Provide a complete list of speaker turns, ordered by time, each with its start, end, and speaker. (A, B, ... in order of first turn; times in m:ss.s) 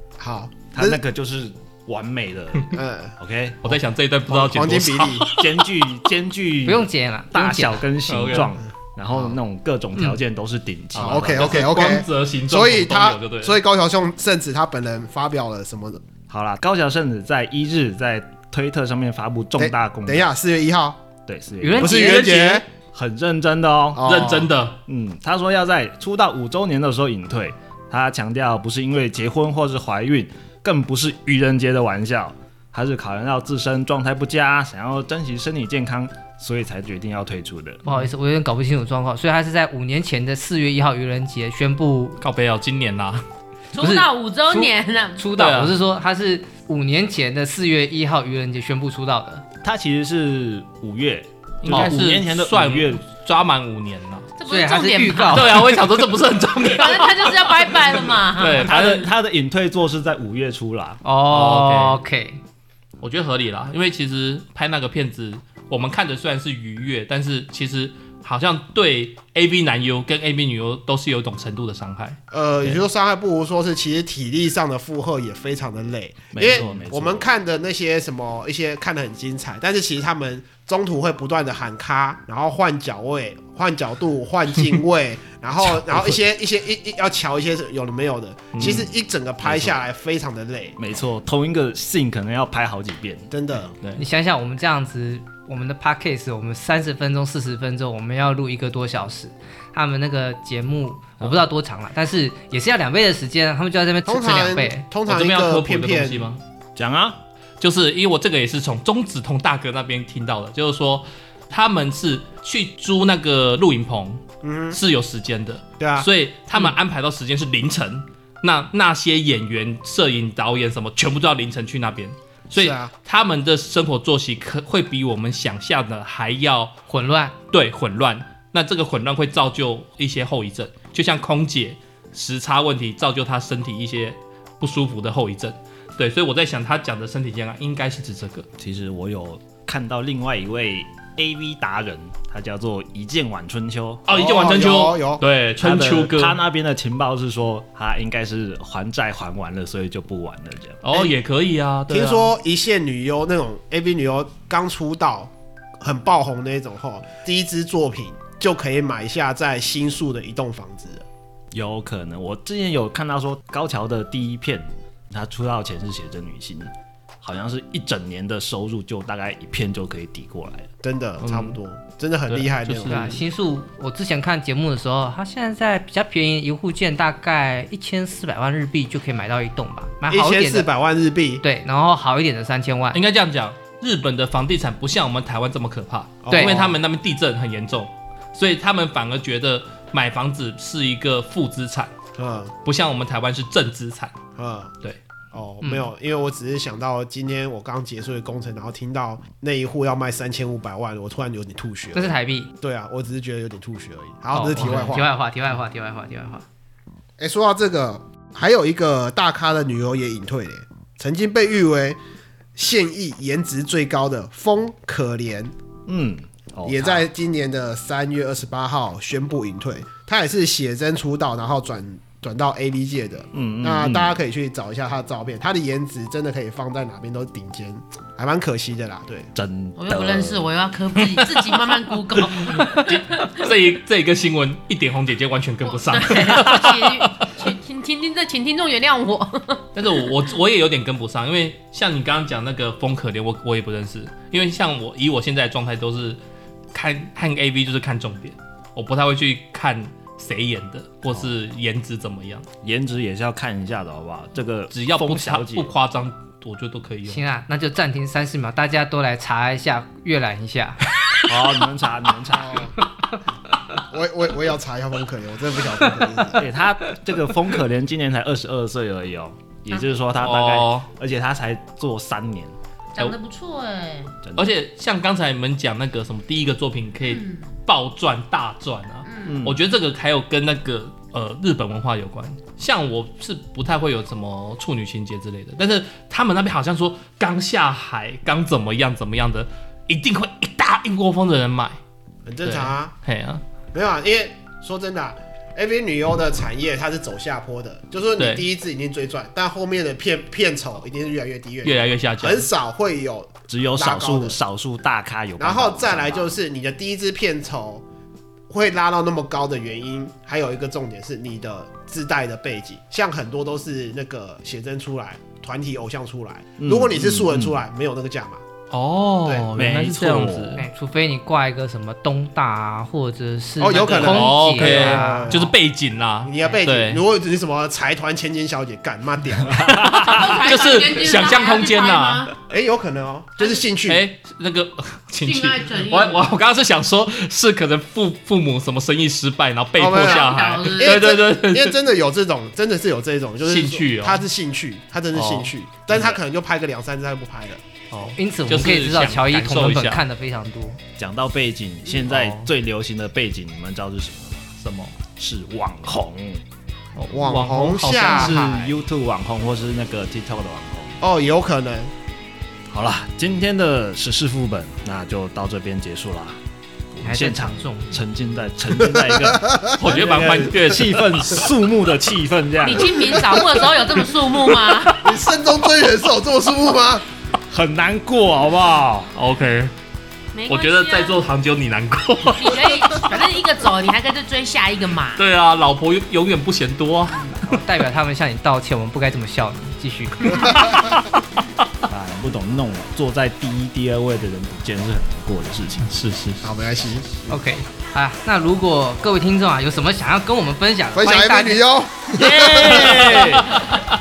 0:00.2-0:01.0 A
0:00.7-0:03.7 B
0:02.7-0:03.1 A
0:03.6-0:05.5 C
0:04.3-0:05.3 A
0:05.3-0:11.6 B
0:06.6-0:07.8 D
0:08.1-0:08.5 C
0:10.9-0:13.6 C
0:10.9-0:16.0 A
0:16.3-0:20.3 B
0:19.6-0:21.0 A
0:21.3-0:24.2 B
0:21.6-0:22.4 D
0:21.8-0:22.6 A
0:21.8-0:22.6 C
0:23.9-0:24.5 A
0:24.0-0:24.8 C
0:24.9-0:37.8 B
0:37.8-0:42.2 D
0:42.2-0:43.2 C
0:43.7-0:45.3 E
0:43.8-0:49.4 D
0:45.3-0:45.8 C
0:49.6-0:53.0 B
0:51.6-0:54.3 C
0:54.4-0:55.6 E
0:54.5-0:55.8 D
0:55.3-0:59.1 C
0:56.6-0:58.7 E
0:58.6-1:01.0 B
1:01.0-1:02.4 D
1:01.3-1:02.0 C
1:03.0-1:12.8 C
1:12.3-1:30.8 A
1:16.3-1:17.2 B
1:28.5-1:28.8 C
1:29.4-1:29.8 B
1:30.8-1:33.3 B
1:33.3-1:33.7 A
1:34.0-1:44.8 D
1:44.0-1:46.3 A
1:45.1-1:46.4 C
1:46.8-1:47.2 B
1:47.6-2:06.8 C
1:54.4-1:54.8 A
1:55.8-1:56.1 A
2:02.5-2:02.9 A
2:06.9-2:07.3 D
2:07.5-2:18.5 C
2:18.6-2:24.1 B
2:24.1-2:26.4 C
2:24.1-2:25.2 A
2:25.6-2:30.8 B
2:30.8-2:32.3 C
2:31.9-2:41.1 A
2:41.5-2:46.7 B
2:47.2-2:50.7 B
2:50.8-2:53.2 A
2:51.2-2:51.6 C
2:52.3-2:53.2 C
2:52.9-3:00.7 D
3:00.1-3:01.4 A
3:01.4-3:03.0 D
3:02.9-3:11.9 C
3:06.2-3:06.8 A
3:06.3-3:06.6 D
3:12.2-3:12.5 A
3:12.6-3:14.1 C
3:14.4-3:14.7 A
3:15.3-3:25.1 A
3:15.6-3:15.9 D
3:21.9-3:22.5 D
3:24.3-3:26.4 D
3:27.2-3:32.0 A
3:32.5-3:35.5 A
3:35.9-3:37.0 B
3:36.6-3:49.3 A
3:43.3-3:44.2 B
3:49.3-3:50.5 B
3:49.8-3:53.4 E
3:52.2-3:57.4 C
3:55.6-3:59.6 E
3:59.7-4:06.2 C
4:06.7-4:12.5 C
4:12.6-4:15.7 B
4:14.7-4:17.2 C
4:17.0-4:20.8 D
4:21.3-4:22.7 B
4:22.4-4:22.7 A
4:23.8-4:26.4 A
4:26.3-4:32.5 B
4:30.1-4:30.9 C
4:33.0-4:34.2 E
4:34.2-4:34.5 B
4:34.4-4:51.8 C
4:37.1-4:37.5 E
4:39.0-4:39.4 E
4:39.2-4:39.6 B
4:52.2-4:52.9 A
4:52.4-4:53.4 C
4:53.7-5:04.4 A
4:58.2-4:58.4 C
5:01.6-5:02.5 C
5:03.5-5:06.3 B
5:05.4-5:07.8 A
5:08.5-5:18.4 A
5:16.6-5:17.5 B
5:18.7-5:20.6 C
5:19.5-5:20.6 B
5:20.6-5:25.3 D
5:23.6-5:25.5 A
5:23.9-5:27.0 C
5:26.2-5:29.8 A
5:29.6-5:32.3 C
5:29.6-5:30.1 B
5:30.0-5:32.3 E
5:32.5-5:34.0 A
5:33.4-5:33.6 E
5:33.8-5:41.8 C
5:35.2-5:36.2 E
5:39.8-5:47.6 A
5:39.9-5:41.1 E
5:43.4-5:44.2 C
5:45.1-5:46.1 C
5:47.9-5:50.0 C
5:48.2-5:50.8 D
5:51.0-5:54.5 B
5:52.1-5:52.5 C
5:54.6-5:55.0 C
5:55.0-5:56.4 B
5:56.9-5:58.5 C
5:57.1-5:58.7 A
5:58.1-6:01.0 B
6:01.0-6:01.9 A
6:02.7-6:06.4 B
6:06.9-6:13.0 B
6:07.0-6:08.0 D
6:09.0-6:10.5 A
6:09.8-6:11.0 C
6:12.6-6:15.0 E
6:15.0-6:17.0 A
6:17.5-6:19.1 B
6:19.1-6:19.7 C
6:20.3-6:21.2 E
6:20.4-6:22.8 C
6:22.2-6:25.2 E
6:25.2-6:27.6 C
6:27.3-6:30.6 D
6:30.4-6:31.4 C
6:31.9-6:35.9 B
6:35.8-6:36.6 C
6:36.4-6:37.1 A
6:37.3-6:41.6 D
6:40.9-6:43.1 A
6:42.1-6:43.5 B
6:42.6-6:43.8 C